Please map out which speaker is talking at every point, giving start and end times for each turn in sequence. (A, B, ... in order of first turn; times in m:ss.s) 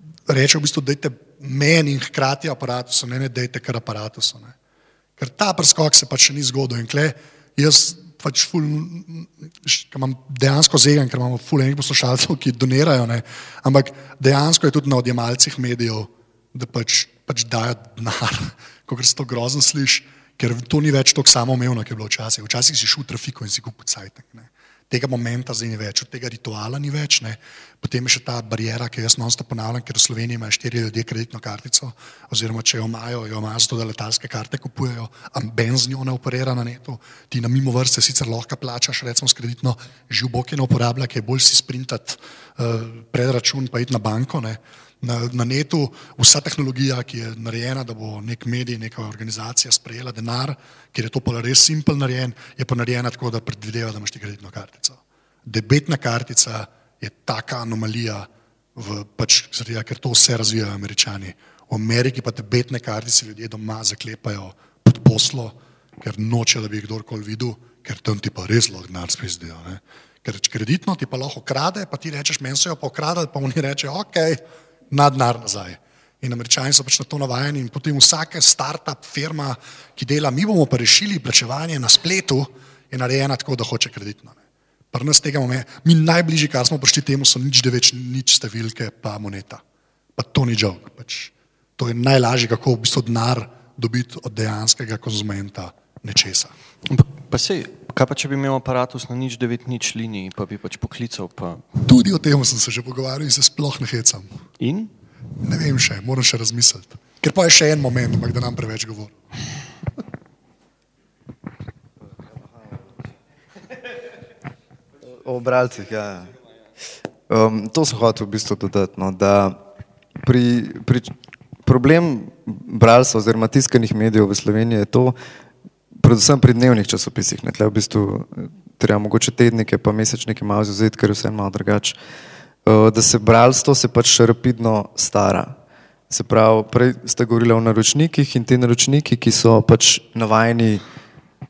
0:00.3-0:04.6 A
0:05.2-1:24.4 A
1:24.9-1:29.6 A
1:30.2-1:36.5 A
1:36.9-1:41.9 B
1:41.8-1:44.3 A
1:44.6-1:44.9 B
1:45.4-1:49.2 A
1:55.1-1:56.3 C
1:57.3-1:59.6 C
2:00.2-2:01.1 C
2:01.6-2:05.2 C
2:06.0-2:12.0 C
2:12.7-2:15.6 C
2:16.1-2:20.8 C